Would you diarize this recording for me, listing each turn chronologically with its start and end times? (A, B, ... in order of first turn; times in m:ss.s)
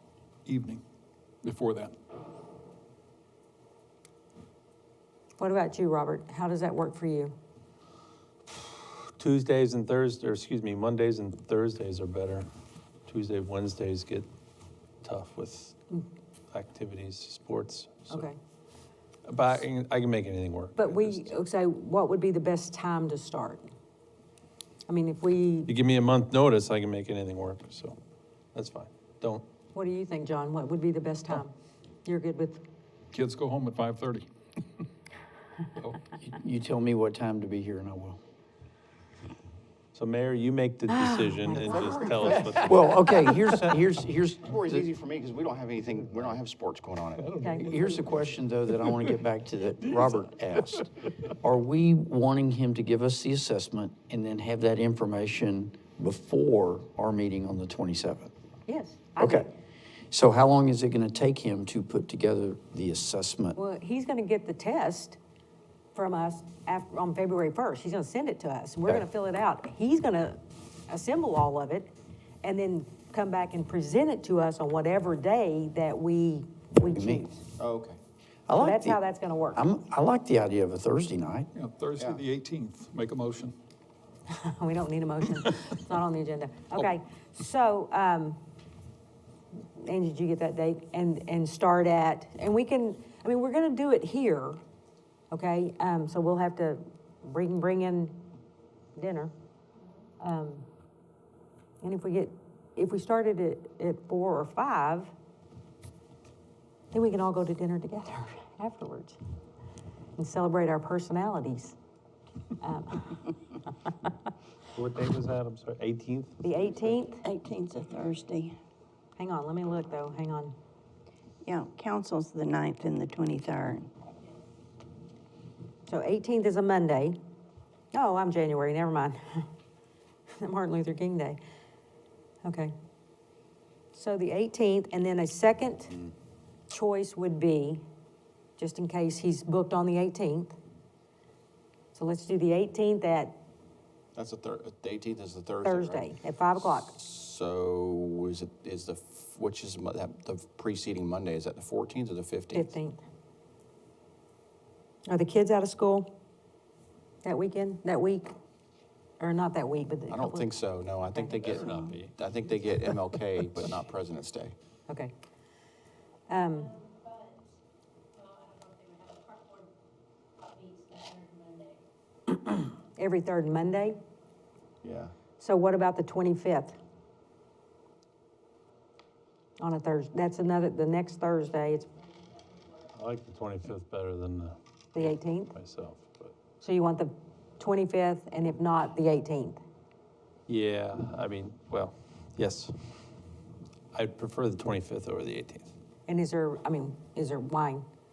0:00.4-0:00.8 A
0:01.4-0:01.9 A
0:05.4-0:07.3 B
0:09.2-0:12.5 C
0:13.0-0:14.3 C
0:15.0-0:15.7 C
0:16.5-0:18.2 C
0:18.1-0:18.4 B
0:19.2-0:21.3 C
0:20.8-0:23.7 B
0:24.9-0:25.7 B
0:25.7-0:28.0 C
0:28.5-0:29.4 C
0:29.7-0:31.5 B
0:32.0-0:32.6 B
0:33.1-0:34.3 A
0:36.2-0:38.2 D
0:39.9-0:43.0 C
0:40.9-0:42.5 B
0:42.5-0:44.8 D
0:44.5-0:47.4 E
0:47.4-0:47.7 B
0:47.5-0:58.3 D
0:58.7-0:59.5 B
0:59.2-0:59.5 D
1:00.1-1:03.6 D
1:03.6-1:05.2 B
1:05.9-1:17.4 B
1:16.9-1:17.3 D
1:17.6-1:18.0 E
1:18.5-1:19.0 D
1:18.5-1:19.6 B
1:19.5-1:21.5 D
1:21.5-1:23.5 A
1:24.3-1:28.4 B
1:29.8-1:34.6 B
1:35.3-1:38.2 B
1:38.9-1:39.3 B
1:40.2-1:40.6 B
1:41.8-1:45.1 B
1:46.9-1:49.2 B
1:50.2-1:51.8 B
1:52.6-1:53.3 B
1:54.7-1:56.9 C
1:56.4-1:57.2 B
1:57.2-1:58.5 F
1:59.2-2:00.5 B
2:01.4-2:03.9 F
2:05.8-2:07.2 B
2:07.9-2:09.5 B
2:10.4-2:11.4 B
2:12.4-2:12.7 B
2:13.9-2:16.0 B
2:16.7-2:17.8 B
2:18.6-2:20.6 B
2:21.9-2:23.3 B
2:24.1-2:26.0 E
2:25.6-2:26.9 B
2:26.7-2:32.7 E
2:32.5-2:33.0 B
2:35.1-2:36.1 B
2:37.2-2:38.3 B
2:39.2-2:40.5 B
2:40.1-2:44.5 E
2:41.2-2:41.9 B
2:41.3-2:42.2 C
2:46.3-2:46.8 B
2:53.0-2:54.0 B
2:54.8-2:55.1 E
2:55.4-2:56.8 B
2:59.6-3:01.9 B
3:02.9-3:04.6 C
3:04.9-3:05.5 B
3:05.5-3:06.3 C
3:06.6-3:09.6 B
3:10.5-3:12.7 C
3:13.9-3:15.7 C
3:16.1-3:17.8 B